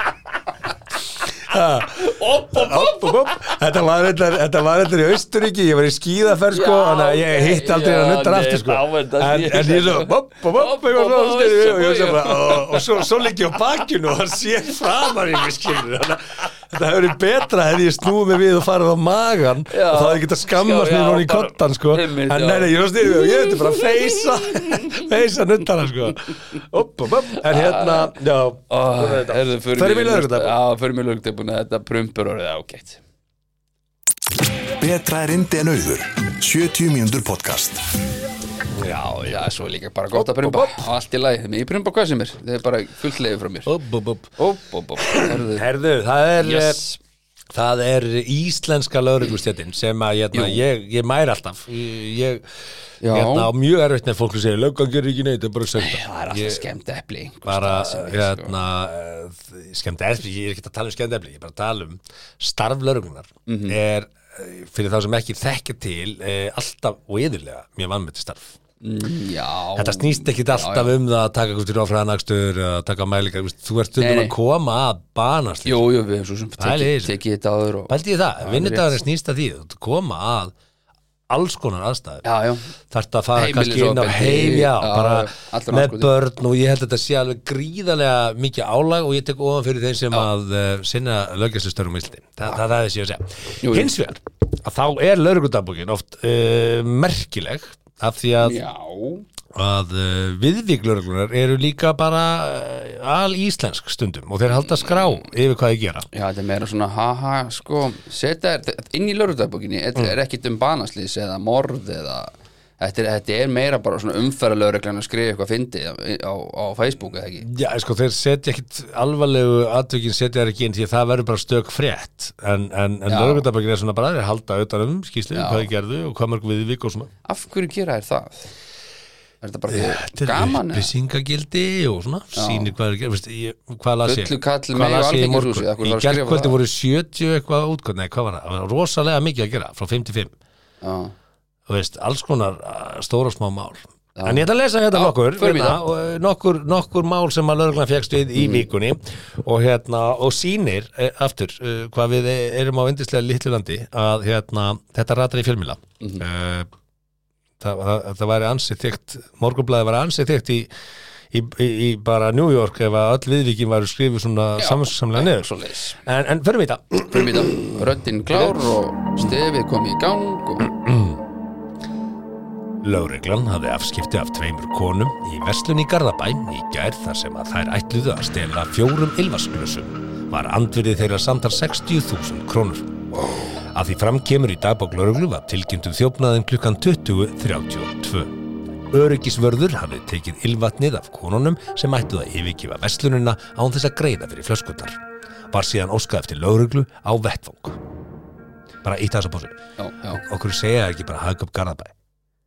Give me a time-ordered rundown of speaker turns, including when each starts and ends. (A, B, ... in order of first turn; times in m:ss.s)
0:01.3-0:30.6 A
0:01.8-0:03.6 B
0:06.5-0:13.6 B
0:19.7-0:25.0 B
0:27.3-0:28.2 B
0:28.7-0:33.0 B
0:34.8-0:37.9 C
0:38.7-0:39.4 A
0:38.9-0:43.7 B
0:40.1-0:40.9 A
0:43.7-0:44.3 A
0:44.4-0:45.7 B
0:45.0-0:46.8 A
0:46.4-0:47.0 B
0:47.5-0:52.4 A
0:50.3-0:50.6 B
0:53.0-0:53.5 B
0:53.0-0:56.6 A
0:55.8-0:58.6 B
0:57.4-1:08.6 A
1:03.5-1:03.8 B
1:08.8-1:10.9 B
1:09.8-1:15.8 A
1:14.0-1:14.4 B
1:15.6-1:19.0 B
1:16.6-1:17.2 A
1:17.9-1:20.5 A
1:21.3-1:22.2 A
1:22.2-1:22.7 B
1:22.9-1:38.6 A
1:23.4-1:26.1 B
1:33.6-1:34.0 B
1:38.4-1:39.3 B
1:39.5-1:46.1 A
1:44.6-1:45.2 B
1:46.1-1:57.5 B
1:57.4-2:07.1 A
2:03.1-2:03.5 B
2:05.3-2:05.7 B
2:07.2-2:08.5 B
2:09.4-2:10.9 B
2:09.7-2:20.4 A
2:12.4-2:12.7 B
2:14.0-2:16.6 B
2:20.8-2:21.1 B
2:21.7-2:36.7 A
2:24.2-2:25.8 B
2:28.4-2:28.7 B
2:37.6-2:40.7 A
2:41.3-2:49.4 A
2:44.6-2:46.0 B
2:47.1-2:50.7 B
2:50.6-2:51.2 A
2:52.8-3:08.4 A
3:08.9-3:15.0 A
3:15.5-3:17.8 A
3:18.8-3:19.6 A
3:19.8-3:20.2 B
3:20.1-3:21.9 A